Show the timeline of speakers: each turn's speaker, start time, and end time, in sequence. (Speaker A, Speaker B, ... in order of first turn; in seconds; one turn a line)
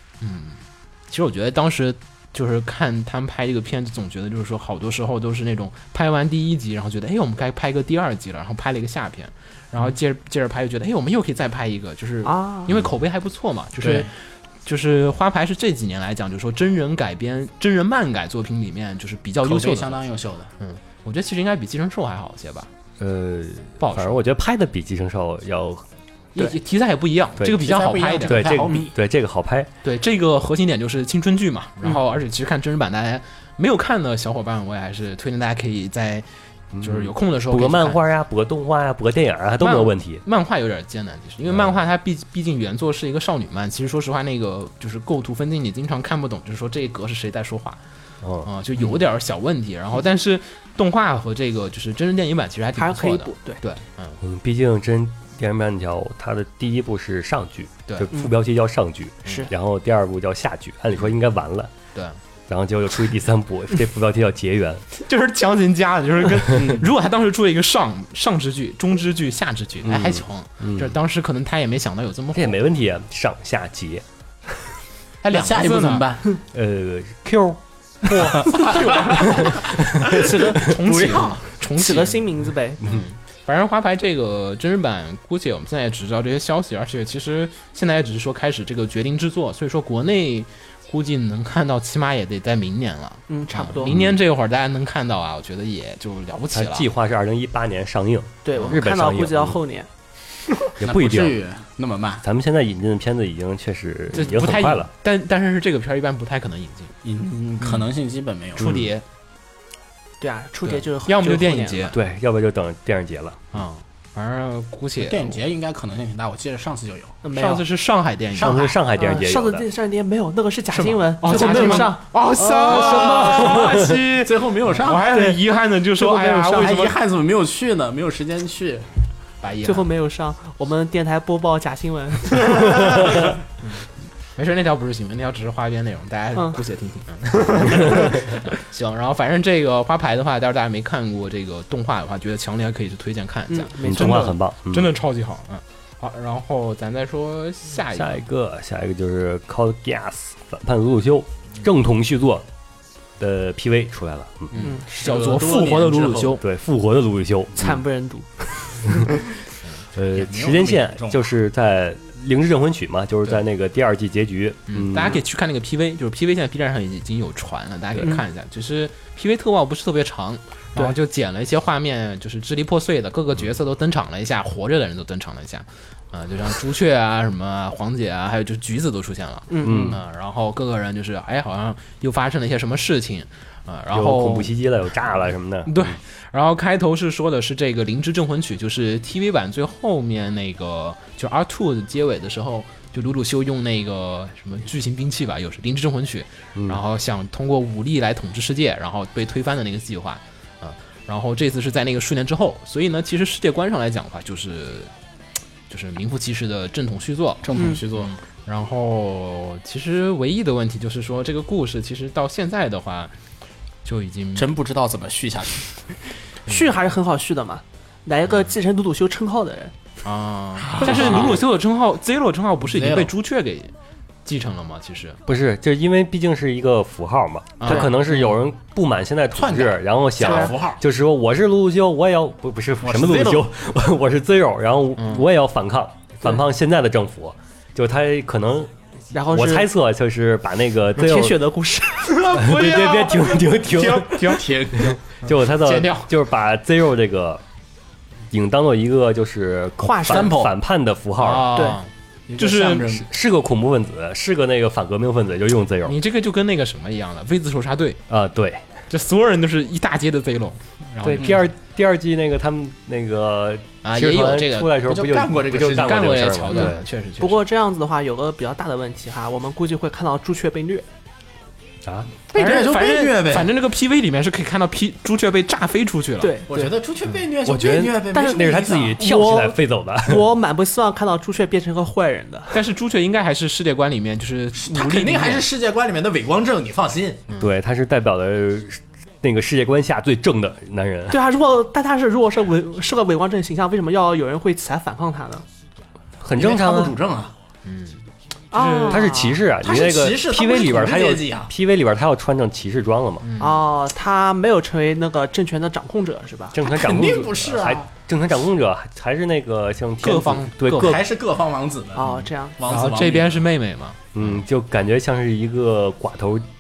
Speaker A: 0.2-14.2
Speaker B: 12.3-12.7
Speaker C: 13.8-14.1
Speaker A: 14.7-20.0
Speaker C: 19.4-20.5
Speaker A: 20.6-22.7
Speaker D: 23.0-25.9
Speaker A: 23.8-24.2
Speaker A: 26.4-28.6
Speaker C: 27.5-28.9
Speaker D: 28.3-29.7
Speaker A: 29.8-36.3
Speaker D: 36.7-40.2
Speaker A: 36.8-38.0
Speaker A: 39.6-47.8
Speaker D: 41.5-41.8
Speaker D: 48.2-49.0
Speaker A: 48.4-54.2
Speaker B: 52.8-53.6
Speaker D: 54.2-61.7
Speaker B: 59.2-59.5
Speaker D: 62.5-64.8
Speaker A: 65.0-72.6
Speaker C: 66.5-66.8
Speaker D: 69.8-71.0
Speaker D: 72.3-74.0
Speaker A: 75.2-76.1
Speaker C: 75.3-76.3
Speaker D: 76.5-80.2
Speaker A: 78.1-78.4
Speaker C: 78.3-79.0
Speaker B: 78.6-82.8
Speaker A: 80.1-82.3
Speaker A: 82.8-96.9
Speaker B: 93.3-93.9
Speaker D: 93.9-94.2
Speaker D: 96.5-99.6
Speaker B: 98.5-99.9
Speaker D: 100.8-101.4
Speaker C: 100.8-102.2
Speaker D: 102.2-104.9
Speaker A: 104.1-106.9
Speaker C: 107.0-108.7
Speaker D: 108.6-108.9
Speaker A: 108.6-109.0
Speaker B: 110.2-111.9
Speaker A: 110.7-112.0
Speaker D: 111.9-113.4
Speaker A: 113.5-115.4
Speaker C: 115.0-117.2
Speaker B: 117.2-117.6
Speaker A: 117.3-118.7
Speaker C: 118.3-118.8
Speaker D: 118.4-119.7
Speaker B: 119.0-123.7
Speaker A: 120.7-127.0
Speaker C: 121.3-121.7
Speaker C: 122.5-125.2
Speaker B: 126.0-126.8
Speaker C: 126.4-128.9
Speaker A: 129.4-129.9
Speaker B: 129.6-133.3
Speaker A: 133.6-148.2
Speaker B: 143.5-144.3
Speaker D: 143.8-144.9
Speaker D: 147.9-152.5
Speaker D: 153.2-154.5
Speaker A: 154.5-156.4
Speaker B: 154.6-154.9
Speaker C: 154.9-156.4
Speaker D: 156.4-157.8
Speaker B: 157.6-159.2
Speaker D: 159.9-165.2
Speaker C: 160.1-161.3
Speaker A: 164.7-184.5
Speaker B: 179.5-179.9
Speaker D: 179.6-180.0
Speaker C: 179.6-180.0
Speaker D: 183.9-186.0
Speaker A: 185.7-204.9
Speaker D: 196.6-196.8
Speaker A: 205.7-213.1
Speaker C: 207.4-208.1
Speaker B: 207.6-207.8
Speaker A: 213.8-214.5
Speaker C: 214.4-215.7
Speaker B: 216.5-219.7
Speaker A: 220.0-223.7
Speaker C: 220.6-221.4
Speaker D: 220.8-221.4
Speaker C: 222.7-223.1
Speaker A: 224.3-225.2
Speaker D: 225.3-238.7
Speaker A: 227.6-228.4
Speaker C: 229.3-230.8
Speaker B: 230.2-230.6
Speaker C: 232.8-233.5
Speaker A: 235.0-235.2
Speaker B: 239.1-239.7
Speaker D: 239.3-241.4
Speaker B: 241.0-242.3
Speaker A: 242.1-246.1
Speaker D: 242.3-247.4
Speaker C: 244.2-245.0
Speaker D: 248.3-251.6
Speaker B: 249.8-250.4
Speaker C: 250.1-250.5
Speaker A: 251.2-252.9
Speaker B: 251.5-251.8
Speaker C: 252.3-253.1
Speaker D: 252.9-256.0
Speaker A: 255.8-258.0
Speaker D: 258.1-258.7
Speaker A: 258.9-261.5
Speaker D: 261.0-266.8
Speaker A: 263.8-264.8
Speaker C: 264.9-266.4
Speaker A: 265.7-267.4
Speaker B: 266.5-270.9
Speaker D: 271.9-272.1
Speaker C: 272.3-273.5
Speaker A: 272.3-276.4
Speaker B: 276.2-276.7
Speaker C: 276.5-279.0
Speaker D: 277.4-280.3
Speaker B: 278.1-282.6
Speaker A: 282.5-285.5
Speaker C: 284.6-287.3
Speaker D: 287.4-291.2
Speaker B: 291.1-295.4
Speaker D: 296.2-297.0
Speaker C: 296.4-297.3
Speaker A: 297.6-299.1
Speaker B: 298.5-299.4
Speaker D: 298.9-303.3
Speaker C: 299.6-301.5
Speaker A: 303.2-303.6
Speaker B: 303.4-306.6
Speaker D: 306.5-311.1
Speaker C: 306.6-307.9
Speaker A: 310.0-311.0
Speaker C: 310.8-312.1
Speaker B: 311.9-312.6
Speaker A: 312.1-314.1
Speaker C: 312.6-313.4
Speaker D: 314.1-316.5